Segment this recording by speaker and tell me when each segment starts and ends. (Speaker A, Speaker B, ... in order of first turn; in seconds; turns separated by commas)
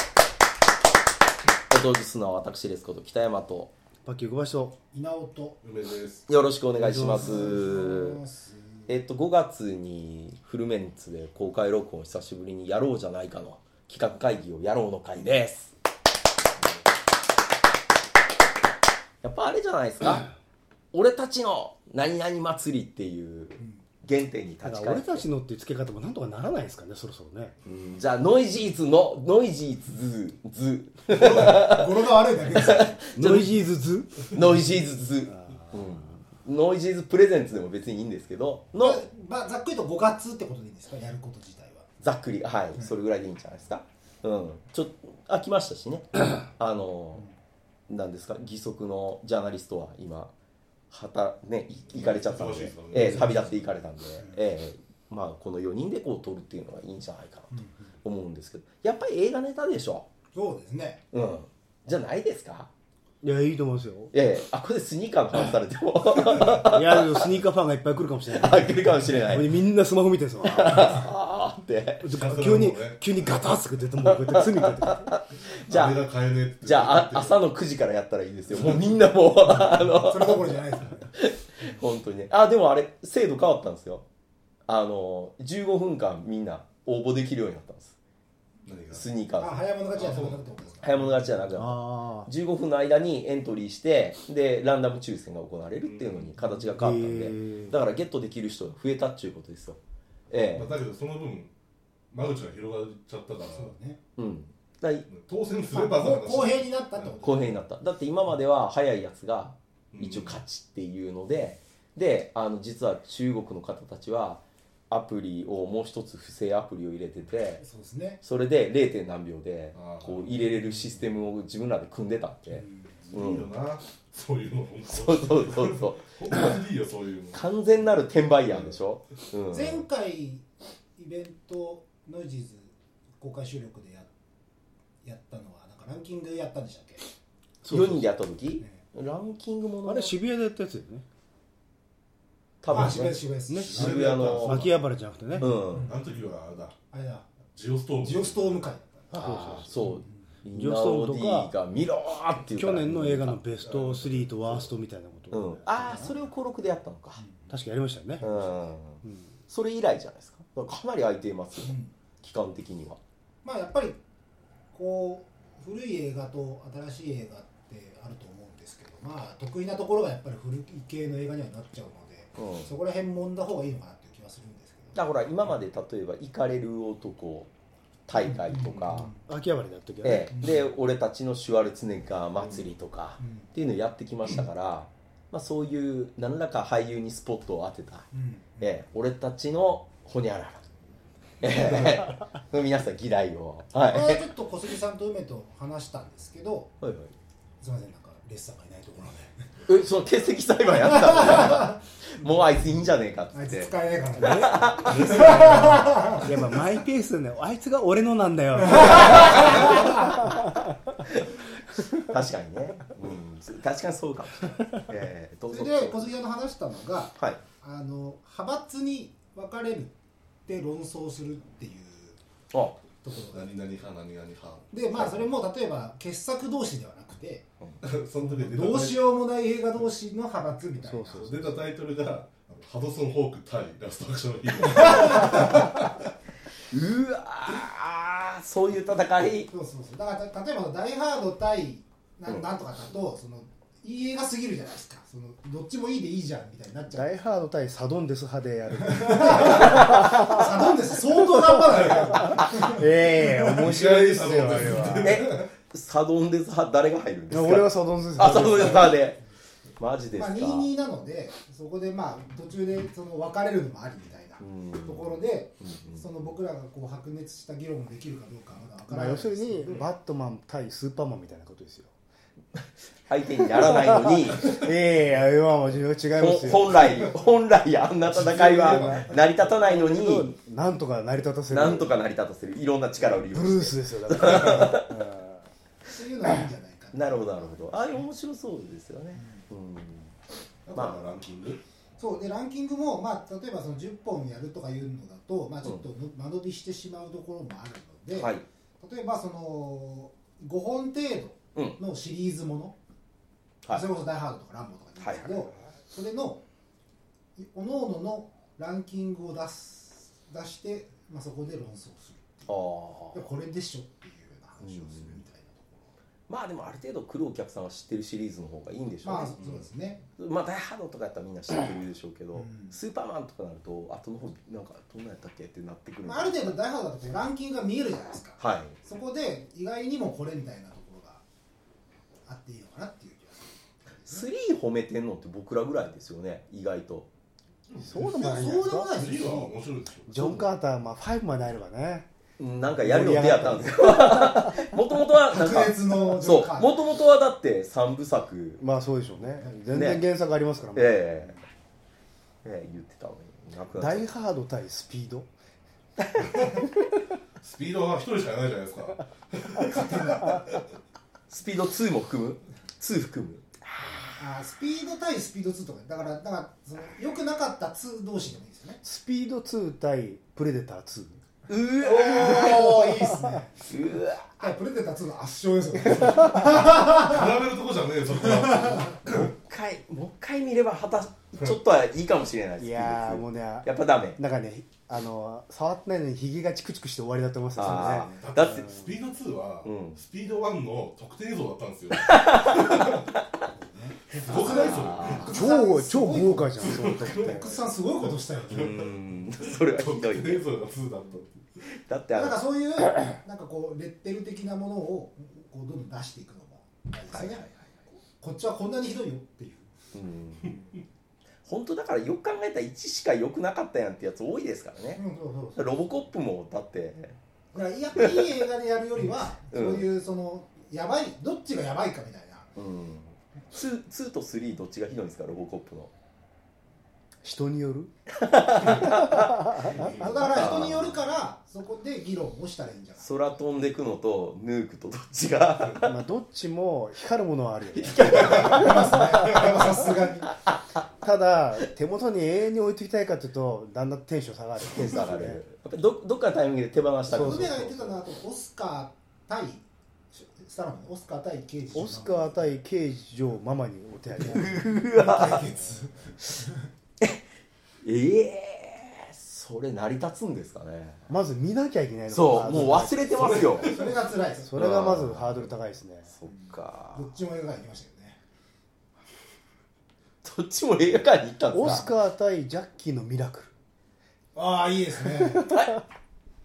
Speaker A: 1.7-3.7, Speaker B: 4.0-4.8, Speaker C: 4.9-5.6, Speaker D: 5.6-6.3, Speaker A: 6.3-8.2, Speaker B: 6.8-7.5, Speaker C: 7.0-8.9, Speaker A: 8.9-15.7, Speaker A: 19.2-20.3, Speaker A: 20.9-25.3, Speaker B: 24.6-27.5, Speaker A: 27.6-31.9, Speaker C: 31.1-33.0, Speaker A: 32.5-33.5, Speaker B: 33.2-35.9, Speaker A: 34.3-39.0, Speaker C: 38.8-41.9, Speaker A: 42.0-47.3, Speaker A: 47.9-50.3, Speaker A: 50.9-60.1, Speaker D: 51.9-53.6, Speaker B: 53.0-53.2, Speaker C: 57.5-57.9, Speaker C: 60.3-61.0, Speaker A: 61.1-62.7, Speaker B: 63.2-64.1, Speaker A: 64.1-67.3, Speaker B: 66.6-71.1, Speaker A: 68.3-69.5, Speaker A: 70.4-72.1, Speaker B: 72.0-75.1, Speaker D: 72.1-73.0, Speaker A: 74.1-76.0, Speaker D: 75.7-77.5, Speaker A: 76.6-84.0, Speaker D: 78.5-79.1, Speaker C: 79.5-81.1, Speaker A: 84.7-88.0, Speaker D: 88.7-89.1, Speaker A: 88.9-89.7, Speaker C: 89.4-91.0, Speaker D: 90.0-90.8, Speaker A: 90.8-99.8, Speaker B: 91.5-92.3, Speaker D: 95.8-96.5, Speaker B: 96.8-97.8, Speaker A: 100.3-100.7, Speaker D: 100.5-101.5, Speaker D: 102.1-103.7, Speaker C: 103.5-104.0, Speaker A: 104.2-105.1, Speaker D: 105.1-107.1, Speaker C: 105.7-107.5, Speaker A: 107.2-117.6, Speaker D: 109.9-110.4, Speaker C: 117.6-118.2, Speaker A: 118.2-123.5, Speaker D: 119.7-120.6, Speaker D: 123.0-127.4, Speaker A: 124.9-126.5, Speaker A: 127.3-129.8, Speaker C: 129.5-130.4, Speaker C: 131.0-134.1, Speaker C: 135.0-137.1, Speaker B: 137.6-138.1, Speaker A: 137.7-140.2, Speaker B: 139.8-141.1, Speaker A: 142.6-143.2, Speaker C: 142.7-144.1, Speaker B: 143.5-145.5, Speaker D: 143.7-144.8, Speaker A: 143.8-144.6, Speaker A: 145.4-145.9, Speaker D: 145.6-146.8, Speaker C: 145.8-146.2, Speaker C: 146.9-147.3, Speaker D: 147.6-148.7, Speaker C: 148.0-150.2, Speaker B: 149.1-149.8, Speaker A: 149.1-153.4, Speaker B: 150.5-151.5, Speaker B: 152.6-156.1, Speaker D: 153.6-154.7, Speaker A: 155.3-157.2, Speaker C: 155.8-156.2, Speaker C: 157.2-157.6, Speaker B: 157.5-158.2, Speaker C: 158.2-158.7, Speaker A: 158.2-163.0, Speaker B: 159.0-159.3, Speaker C: 161.6-161.9, Speaker C: 163.4-164.0, Speaker C: 164.7-175.0, Speaker A: 172.4-172.7, Speaker A: 174.9-177.5, Speaker A: 178.1-179.1, Speaker C: 178.1-179.2, Speaker B: 179.3-180.3, Speaker A: 180.0-188.1, Speaker C: 180.3-180.7, Speaker C: 183.2-183.5, Speaker C: 188.1-188.7, Speaker A: 188.6-190.6, Speaker A: 191.4-194.3, Speaker C: 193.9-196.7, Speaker A: 196.8-197.1, Speaker C: 197.6-199.3, Speaker A: 199.7-205.3, Speaker C: 201.3-201.7, Speaker C: 203.3-206.7, Speaker B: 204.2-205.1, Speaker D: 204.8-206.1, Speaker B: 206.2-211.0, Speaker A: 212.0-216.1, Speaker C: 215.5-220.0, Speaker A: 217.2-217.4, Speaker C: 220.5-222.2, Speaker A: 222.5-222.8, Speaker C: 223.0-223.6, Speaker D: 223.3-225.2, Speaker C: 224.7-227.5, Speaker D: 227.8-229.2, Speaker C: 228.2-231.3, Speaker B: 230.8-231.7, Speaker D: 231.1-236.1, Speaker A: 236.7-239.5, Speaker C: 239.5-247.2, Speaker B: 246.9-250.6, Speaker C: 248.8-252.8, Speaker B: 251.4-255.3, Speaker D: 253.4-255.5, Speaker A: 255.0-259.2, Speaker B: 257.3-258.9, Speaker D: 258.2-258.9, Speaker A: 259.8-260.7, Speaker C: 260.1-269.8, Speaker A: 264.4-266.1, Speaker B: 268.9-271.9, Speaker A: 273.1-274.6, Speaker B: 273.6-276.8, Speaker A: 276.2-280.3, Speaker D: 278.1-279.1, Speaker B: 278.3-282.0, Speaker A: 281.5-284.9, Speaker B: 283.2-285.5, Speaker C: 285.9-288.1, Speaker A: 286.9-290.1, Speaker C: 289.1-289.4, Speaker C: 290.7-291.0, Speaker A: 290.7-291.1, Speaker D: 290.8-291.6, Speaker C: 292.0-302.8, Speaker A: 298.1-298.4, Speaker C: 303.7-306.4, Speaker A: 305.0-305.4, Speaker C: 307.4-315.9, Speaker A: 312.5-313.2, Speaker A: 314.7-315.0, Speaker A: 316.3-319.4, Speaker C: 319.0-320.0, Speaker A: 320.2-326.6, Speaker C: 322.3-322.7, Speaker C: 326.0-331.2, Speaker A: 328.4-328.8, Speaker C: 332.3-334.3, Speaker A: 334.1-337.1, Speaker D: 337.8-338.0, Speaker B: 337.8-338.9, Speaker C: 338.0-339.6, Speaker D: 338.9-340.4, Speaker B: 340.1-342.1, Speaker A: 342.4-348.6, Speaker B: 342.8-344.6, Speaker C: 345.2-346.8, Speaker B: 348.6-351.2, Speaker C: 349.2-349.6, Speaker A: 349.7-350.1, Speaker A: 350.8-351.4, Speaker A: 352.4-354.1, Speaker B: 353.8-355.3, Speaker D: 357.4-360.5, Speaker C: 359.7-360.5, Speaker A: 361.3-363.5, Speaker C: 364.2-368.8, Speaker B: 368.8-371.2, Speaker A: 371.5-372.9, Speaker C: 371.8-373.6, Speaker A: 373.7-374.4, Speaker C: 374.4-377.3, Speaker B: 375.9-376.4, Speaker D: 376.8-379.3, Speaker C: 378.1-378.4, Speaker A: 379.1-384.2, Speaker B: 382.6-388.9, Speaker A: 387.6-388.7, Speaker D: 388.2-393.1, Speaker A: 389.6-390.0, Speaker A: 391.9-393.2, Speaker C: 393.4-398.7, Speaker D: 394.2-395.4, Speaker A: 394.4-395.3, Speaker B: 395.3-397.6, Speaker D: 396.6-399.0, Speaker A: 398.5-400.5, Speaker D: 399.6-401.4, Speaker A: 401.8-402.4, Speaker C: 402.1-407.5, Speaker A: 407.1-407.6, Speaker C: 408.0-409.7, Speaker A: 409.9-410.6, Speaker A: 411.4-415.0, Speaker C: 414.9-415.8, Speaker A: 415.6-417.2, Speaker C: 417.5-422.5, Speaker A: 418.0-418.4, Speaker A: 419.5-419.9, Speaker A: 422.6-425.9, Speaker B: 427.2-427.9, Speaker A: 428.2-429.5, Speaker D: 428.6-428.9, Speaker B: 428.6-429.8, Speaker D: 429.5-430.8, Speaker C: 429.9-433.1, Speaker A: 430.2-431.0, Speaker A: 433.0-436.0, Speaker B: 435.8-438.5, Speaker A: 437.7-439.7, Speaker C: 438.4-440.3, Speaker B: 441.0-445.4, Speaker A: 444.7-448.0, Speaker C: 447.1-452.6, Speaker B: 447.1-447.5, Speaker B: 451.7-454.7, Speaker A: 454.2-455.4, Speaker C: 454.3-456.7, Speaker A: 457.8-461.1, Speaker B: 461.1-463.7, Speaker A: 462.1-463.8, Speaker C: 463.1-464.5, Speaker B: 464.4-466.1, Speaker A: 464.6-465.5, Speaker A: 466.1-467.1, Speaker C: 466.3-468.2, Speaker A: 470.2-471.9, Speaker B: 471.5-473.5, Speaker C: 474.4-475.5, Speaker A: 475.5-475.8